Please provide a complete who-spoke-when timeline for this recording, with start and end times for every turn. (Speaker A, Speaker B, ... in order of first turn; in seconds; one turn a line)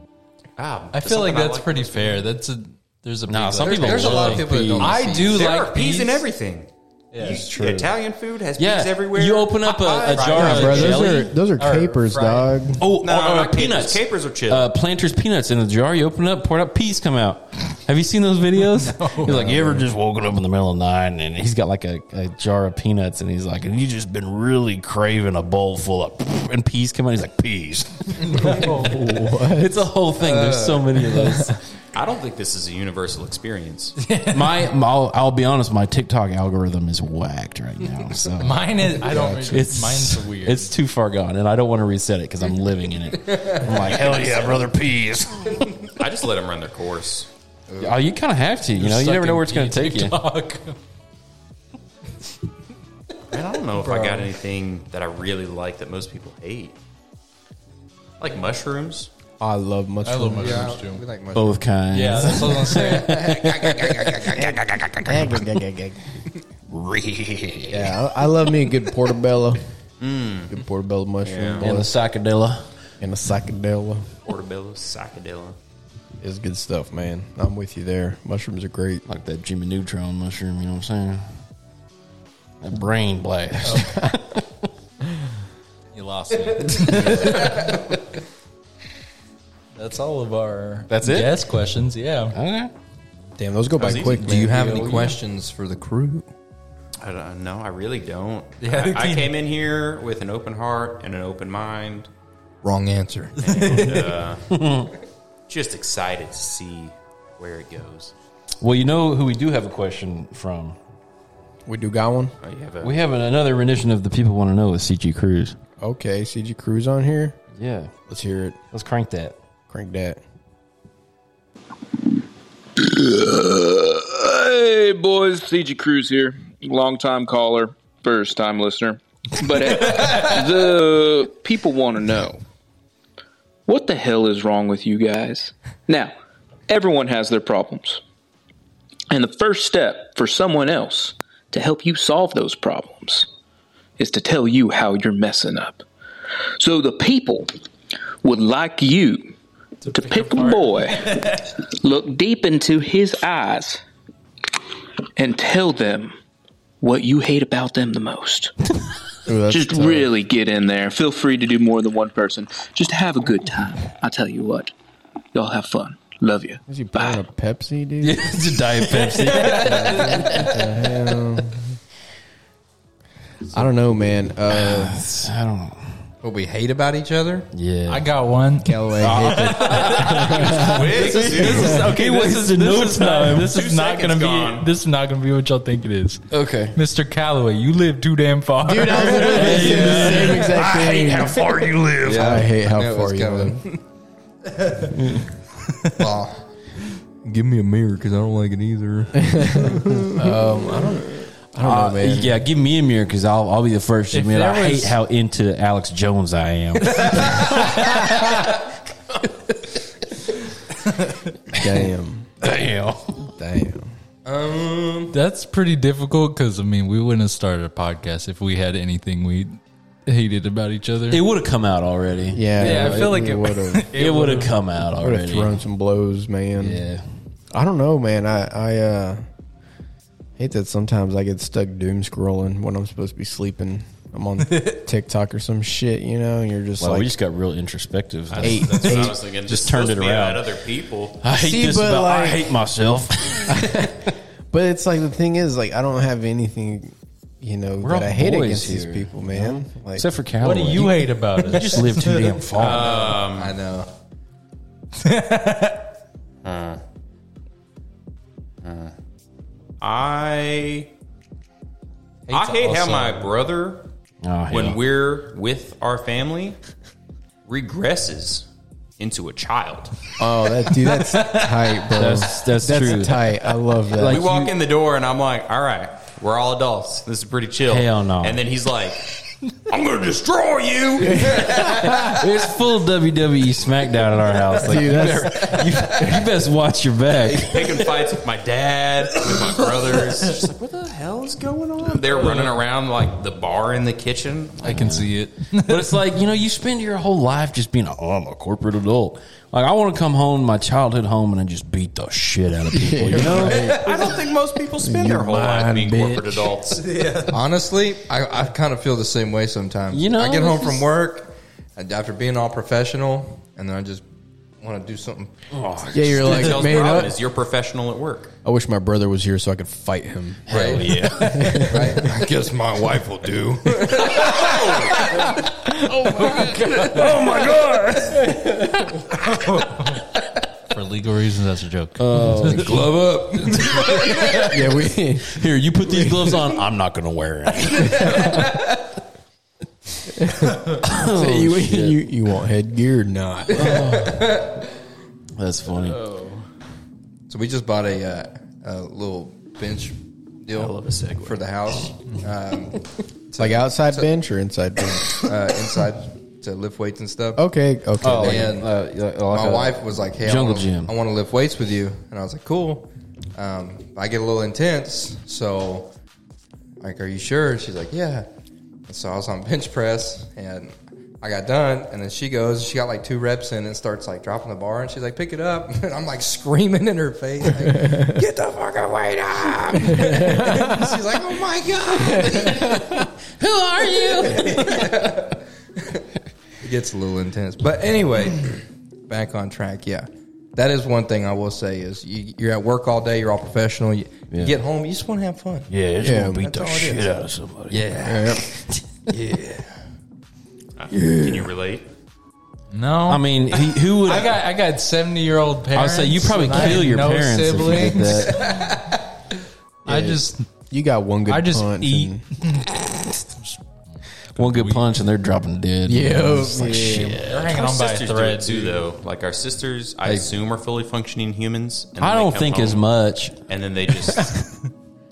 Speaker A: 0.6-2.3
Speaker B: 0.9-6.2
Speaker C: 3.3-5.0
Speaker D: 3.6-5.5
Speaker A: 5.3-10.7
Speaker B: 7.1-7.4
Speaker C: 7.2-7.9
Speaker C: 8.6-11.4
Speaker B: 9.6-12.7
Speaker E: 10.3-12.8
Speaker C: 12.8-31.6
Speaker A: 13.0-14.7
Speaker B: 18.7-19.7
Speaker E: 19.3-19.8
Speaker B: 28.2-29.0
Speaker E: 28.4-29.9
Speaker D: 30.2-31.0
Speaker E: 31.1-31.6
Speaker A: 31.9-34.0
Speaker B: 34.0-34.7
Speaker C: 34.3-45.8
Speaker B: 38.4-40.7
Speaker E: 39.0-39.6
Speaker D: 43.3-43.8
Speaker A: 44.0-44.4
Speaker A: 45.9-47.3
Speaker D: 47.7-48.0
Speaker C: 47.8-50.2
Speaker B: 48.8-50.8
Speaker A: 53.3-56.8
Speaker B: 53.8-54.2
Speaker A: 58.2-59.1
Speaker E: 59.4-60.8
Speaker B: 60.0-61.0
Speaker D: 60.4-61.6
Speaker C: 61.3-65.6
Speaker B: 61.9-63.2
Speaker D: 62.7-64.6
Speaker E: 65.0-66.1
Speaker C: 66.7-68.1
Speaker E: 67.7-69.6
Speaker A: 70.0-70.6
Speaker E: 70.5-71.9
Speaker A: 71.2-71.7
Speaker C: 71.6-72.7
Speaker E: 73.0-74.1
Speaker A: 74.2-75.6
Speaker E: 76.2-79.0
Speaker C: 79.1-81.2
Speaker C: 82.6-84.5
Speaker E: 83.7-84.2
Speaker B: 85.9-87.8
Speaker D: 87.4-87.9
Speaker B: 89.8-92.4
Speaker C: 90.9-91.4
Speaker C: 92.3-92.7
Speaker E: 93.4-95.0
Speaker A: 93.8-94.2
Speaker D: 93.9-96.3
Speaker B: 94.7-95.1
Speaker C: 94.8-95.1
Speaker A: 97.0-102.1
Speaker B: 98.6-99.3
Speaker D: 102.6-103.4
Speaker A: 103.4-104.5
Speaker B: 103.4-104.1
Speaker C: 104.5-104.9
Speaker A: 105.5-108.1
Speaker C: 108.6-110.8
Speaker E: 111.7-112.3
Speaker A: 112.4-113.0
Speaker C: 112.8-115.6
Speaker E: 115.8-117.4
Speaker C: 117.5-117.9
Speaker E: 118.1-118.6
Speaker C: 118.7-119.4
Speaker E: 119.7-120.2
Speaker F: 122.8-132.4
Speaker F: 133.7-136.2
Speaker F: 136.7-138.0
Speaker F: 139.1-143.3
Speaker F: 144.0-145.9
Speaker F: 146.6-147.5
Speaker F: 148.2-149.3
Speaker B: 149.8-151.4
Speaker F: 149.9-153.8
Speaker F: 155.2-156.2
Speaker F: 156.8-158.5
Speaker E: 159.3-160.1
Speaker F: 159.5-164.7
Speaker F: 165.3-167.2
Speaker E: 166.7-168.4
Speaker C: 168.0-171.2
Speaker B: 169.2-170.5
Speaker E: 169.4-171.6
Speaker E: 173.5-175.0
Speaker C: 174.5-175.9
Speaker D: 176.2-177.5
Speaker C: 177.5-178.1
Speaker B: 177.9-190.3
Speaker E: 178.6-181.8
Speaker C: 179.0-183.6
Speaker A: 180.0-181.9
Speaker A: 183.4-184.7
Speaker C: 186.3-186.8
Speaker E: 188.6-193.6
Speaker C: 189.0-192.5
Speaker D: 192.0-193.8
Speaker C: 194.9-195.3
Speaker D: 195.9-196.5
Speaker D: 197.2-200.3
Speaker E: 199.2-202.4
Speaker C: 201.6-208.2
Speaker B: 204.1-205.0
Speaker B: 206.9-208.3
Speaker E: 211.5-212.3
Speaker C: 212.4-213.3
Speaker E: 213.4-213.9
Speaker D: 214.2-215.2
Speaker B: 215.1-221.2
Speaker C: 221.1-223.3
Speaker E: 222.3-223.9
Speaker B: 222.6-224.6
Speaker C: 223.9-225.6
Speaker E: 224.9-226.8
Speaker C: 226.6-227.0
Speaker E: 227.5-229.2
Speaker E: 230.4-237.1
Speaker B: 234.5-234.8
Speaker C: 236.8-240.5
Speaker A: 238.3-241.2
Speaker E: 238.4-239.2
Speaker C: 241.2-243.9
Speaker E: 241.3-242.6
Speaker E: 243.5-250.1
Speaker C: 247.8-253.0
Speaker B: 250.4-252.3
Speaker A: 252.6-253.6
Speaker D: 253.1-253.9
Speaker B: 255.0-255.9
Speaker A: 256.4-256.8
Speaker A: 258.6-258.9
Speaker A: 259.8-260.9
Speaker B: 262.3-263.3
Speaker A: 262.3-263.9
Speaker C: 264.2-264.8
Speaker A: 264.5-266.6
Speaker A: 267.4-268.5
Speaker A: 269.0-270.0
Speaker E: 270.2-274.2
Speaker C: 271.9-274.6
Speaker A: 274.0-281.9
Speaker C: 277.7-278.4
Speaker E: 281.0-282.2
Speaker C: 281.4-287.9
Speaker E: 284.6-286.3
Speaker A: 287.2-294.8
Speaker B: 294.6-296.0
Speaker C: 294.6-303.8
Speaker E: 302.7-304.2
Speaker A: 303.4-306.9
Speaker E: 304.8-305.3
Speaker C: 305.3-306.2
Speaker D: 307.1-314.1
Speaker C: 309.9-310.9
Speaker D: 314.6-315.3
Speaker C: 315.5-316.8
Speaker E: 315.9-317.2
Speaker A: 316.0-318.3
Speaker E: 318.4-322.1
Speaker C: 320.5-321.8
Speaker D: 320.5-321.1
Speaker D: 321.7-325.1
Speaker A: 324.2-325.1
Speaker C: 325.1-329.1
Speaker E: 325.9-327.1
Speaker B: 326.4-327.1
Speaker B: 329.3-330.1
Speaker B: 330.7-332.8
Speaker C: 332.0-332.9
Speaker D: 332.5-334.4
Speaker C: 333.5-338.4
Speaker B: 333.6-334.5
Speaker E: 334.3-336.4
Speaker D: 337.7-338.8
Speaker E: 337.8-338.5
Speaker E: 340.2-344.0
Speaker C: 340.7-342.1
Speaker D: 343.5-344.7
Speaker C: 343.5-344.4
Speaker C: 345.4-346.0
Speaker B: 345.8-346.4
Speaker D: 347.3-354.1
Speaker C: 350.5-351.4
Speaker E: 353.4-355.3
Speaker D: 355.1-357.4
Speaker E: 357.4-358.6
Speaker C: 358.0-360.9
Speaker D: 358.1-358.7
Speaker D: 359.3-365.9
Speaker D: 366.8-368.3
Speaker D: 368.9-382.8
Speaker E: 380.0-380.7
Speaker C: 382.1-385.2
Speaker E: 382.2-383.0
Speaker D: 383.8-386.1
Speaker D: 386.6-395.7
Speaker C: 394.3-394.6
Speaker C: 395.7-399.1
Speaker E: 396.0-396.5
Speaker D: 396.4-397.1
Speaker D: 397.7-398.5
Speaker E: 397.9-398.5
Speaker D: 399.1-399.7
Speaker A: 400.8-401.9
Speaker B: 402.7-403.2
Speaker C: 403.1-404.4
Speaker B: 404.0-408.8
Speaker C: 405.7-408.5
Speaker D: 408.2-409.0
Speaker B: 409.9-410.5
Speaker E: 409.9-412.2
Speaker B: 411.3-414.9
Speaker C: 414.4-417.6
Speaker E: 415.9-417.2
Speaker B: 417.2-418.8
Speaker A: 417.5-422.9
Speaker C: 422.0-423.4
Speaker A: 423.5-424.4